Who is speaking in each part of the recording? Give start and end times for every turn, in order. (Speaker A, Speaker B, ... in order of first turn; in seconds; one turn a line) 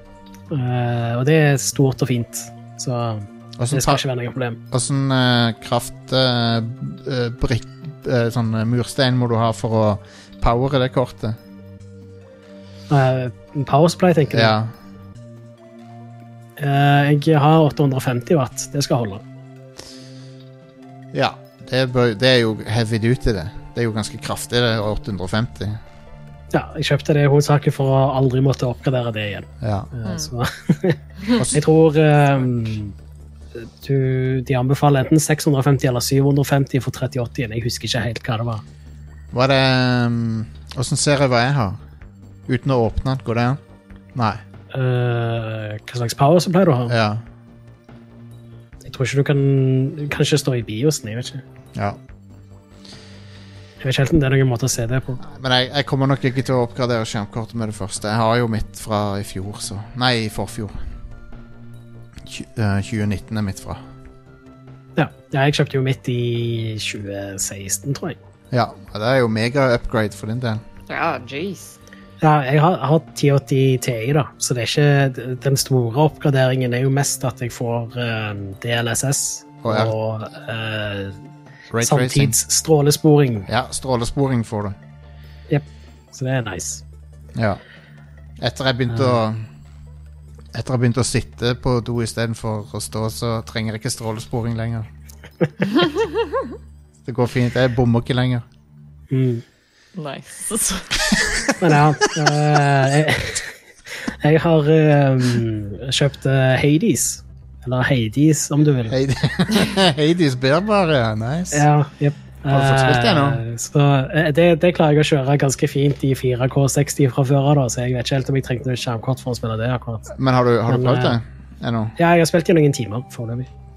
Speaker A: 0.5-4.6
Speaker B: 3.6-4.0
Speaker B: 4.7-11.4
Speaker A: 12.9-14.6
Speaker B: 14.3-14.7
Speaker A: 16.6-19.2
Speaker B: 21.1-25.8
Speaker A: 26.5-32.9
Speaker B: 29.6-29.9
Speaker C: 30.1-30.3
Speaker B: 31.4-31.6
Speaker A: 33.6-38.6
Speaker B: 39.3-41.8
Speaker B: 42.5-43.6
Speaker B: 44.1-44.4
Speaker A: 44.7-46.9
Speaker B: 46.9-47.2
Speaker A: 48.9-51.4
Speaker B: 51.7-52.0
Speaker A: 53.8-55.2
Speaker B: 55.2-60.9
Speaker B: 62.2-63.8
Speaker A: 65.0-68.2
Speaker B: 68.5-70.6
Speaker C: 70.9-71.8
Speaker A: 72.2-81.2
Speaker B: 79.6-80.0
Speaker B: 81.7-82.4
Speaker A: 81.8-83.5
Speaker B: 83.5-84.8
Speaker A: 85.5-86.8
Speaker B: 87.3-87.6
Speaker B: 88.4-89.5
Speaker B: 90.5-94.9
Speaker B: 97.0-98.4
Speaker A: 99.1-99.4
Speaker C: 100.0-101.5
Speaker A: 101.6-103.5
Speaker A: 104.0-109.0
Speaker B: 108.9-111.7
Speaker A: 111.5-120.1
Speaker B: 112.5-113.4
Speaker B: 120.1-122.0
Speaker A: 120.7-121.2
Speaker A: 122.0-123.5